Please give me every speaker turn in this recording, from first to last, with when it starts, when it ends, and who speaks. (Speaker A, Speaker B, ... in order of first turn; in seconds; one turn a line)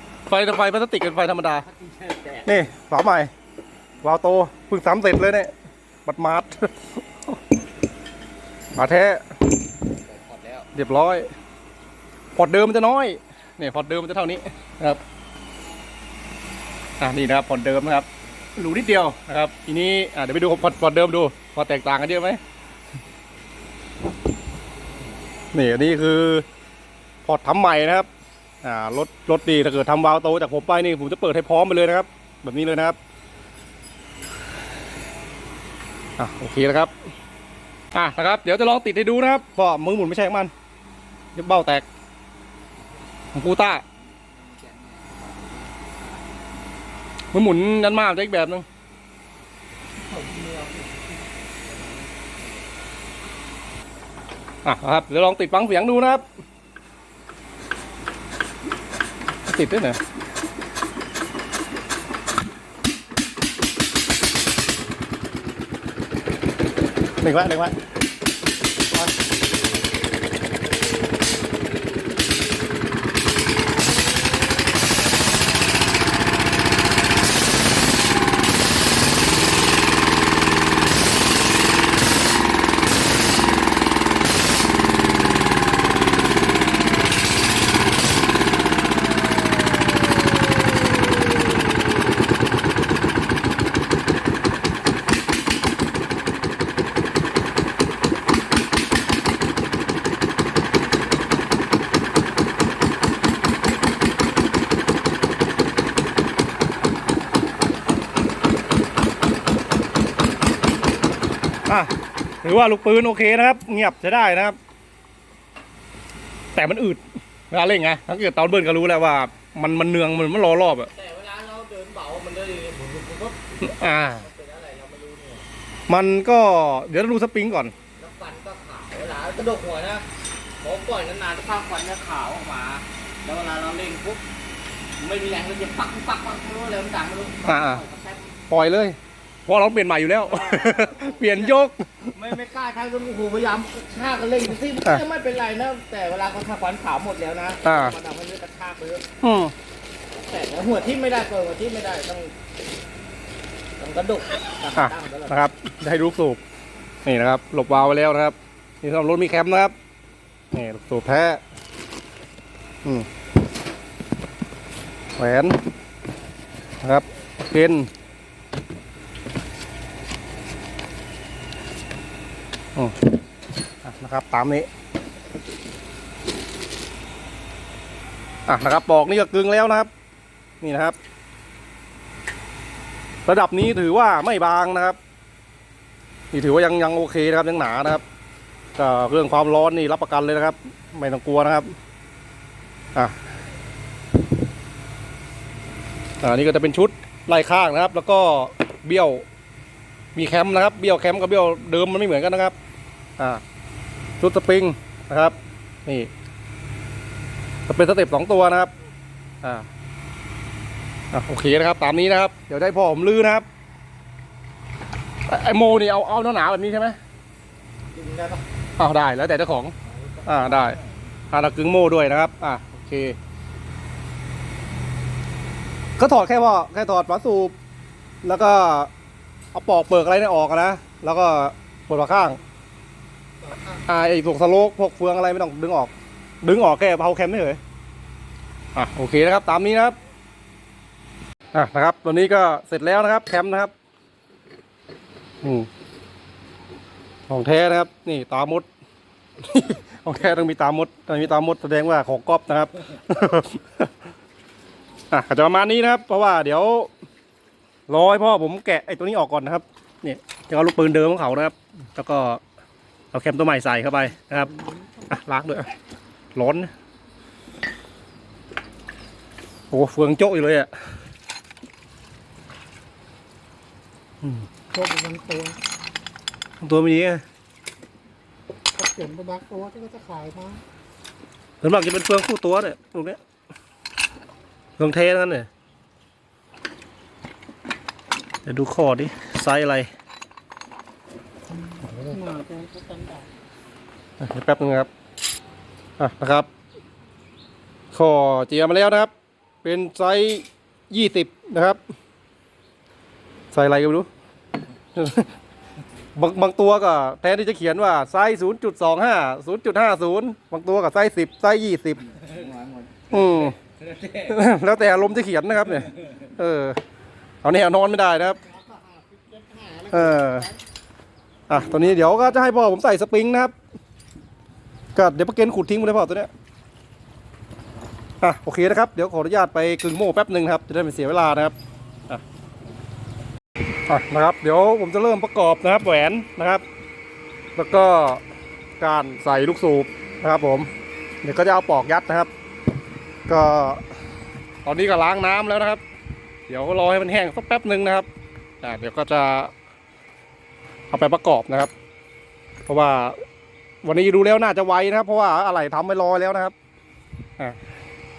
Speaker A: 0.3-1.7
Speaker B: 1.6-2.6
Speaker A: 2.5-3.3
Speaker A: 4.0-5.5
Speaker A: 6.1-7.4
Speaker A: 8.8-9.2
Speaker B: 10.1-10.7
Speaker A: 10.7-11.3
Speaker A: 12.4-15.0
Speaker A: 17.0-22.4
Speaker A: 25.5-26.5
Speaker A: 27.2-28.1
Speaker A: 28.6-33.0
Speaker A: 36.2-36.9
Speaker A: 37.9-40.5
Speaker A: 41.4-41.9
Speaker A: 43.3-43.8
Speaker B: 44.5-45.1
Speaker A: 47.3-48.6
Speaker C: 50.0-51.2
Speaker A: 54.6-56.2
Speaker A: 59.5-60.0
Speaker A: 67.2-67.8
Speaker A: 111.7-114.6
Speaker A: 116.5-120.9
Speaker B: 120.9-125.5
Speaker A: 123.6-124.3
Speaker A: 125.9-127.7
Speaker B: 128.0-130.1
Speaker B: 130.6-134.2
Speaker B: 135.0-138.4
Speaker A: 137.4-137.8
Speaker A: 138.5-142.2
Speaker B: 140.3-141.6
Speaker B: 142.2-149.1
Speaker A: 147.6-147.9
Speaker A: 149.2-149.5
Speaker B: 150.2-152.3
Speaker B: 153.8-155.4
Speaker A: 154.8-156.4
Speaker A: 157.1-159.8
Speaker A: 160.5-161.4
Speaker A: 165.2-165.6
Speaker A: 166.8-167.9
Speaker A: 173.8-174.7
Speaker A: 178.5-179.9
Speaker A: 180.6-181.0
Speaker A: 183.3-185.0
Speaker A: 186.3-188.0
Speaker A: 188.8-191.8
Speaker A: 196.2-199.2
Speaker A: 200.2-202.6
Speaker A: 204.2-206.1
Speaker A: 207.7-208.7
Speaker A: 209.4-209.7
Speaker A: 211.1-213.4
Speaker A: 215.3-217.0
Speaker B: 217.9-218.4
Speaker A: 218.8-219.8
Speaker B: 219.8-221.1
Speaker A: 220.3-220.8
Speaker A: 221.3-223.2
Speaker A: 226.0-227.6
Speaker A: 228.2-228.9
Speaker A: 229.5-232.4
Speaker A: 233.7-237.6
Speaker A: 238.8-240.0
Speaker A: 241.5-243.7
Speaker A: 245.4-245.7
Speaker A: 247.3-248.7
Speaker A: 249.4-253.9
Speaker A: 255.1-256.9
Speaker A: 257.9-262.4
Speaker A: 263.1-264.5
Speaker C: 264.4-265.1
Speaker A: 265.1-265.7
Speaker A: 266.4-266.7
Speaker A: 269.7-270.7
Speaker C: 274.7-275.6
Speaker A: 276.6-277.2
Speaker C: 278.8-280.6
Speaker A: 281.6-283.2
Speaker A: 284.8-285.5
Speaker A: 288.5-289.9
Speaker C: 291.6-293.3
Speaker A: 294.2-294.9
Speaker A: 296.0-296.5
Speaker A: 297.9-299.1
Speaker A: 299.6-301.8
Speaker A: 303.5-304.1
Speaker A: 304.9-305.3
Speaker A: 306.2-312.1
Speaker B: 312.1-314.4
Speaker A: 313.1-313.6
Speaker A: 314.2-316.8
Speaker A: 317.4-318.4
Speaker C: 318.4-320.5
Speaker A: 319.9-320.5
Speaker A: 321.5-323.5
Speaker A: 324.9-326.3
Speaker A: 328.2-331.6
Speaker A: 333.9-336.6
Speaker A: 337.6-338.2
Speaker A: 338.8-340.7
Speaker A: 341.2-342.3
Speaker A: 343.3-343.8
Speaker A: 344.6-345.8
Speaker A: 346.5-348.1
Speaker A: 348.6-349.5
Speaker A: 350.9-351.7
Speaker A: 352.7-353.2
Speaker A: 353.8-356.5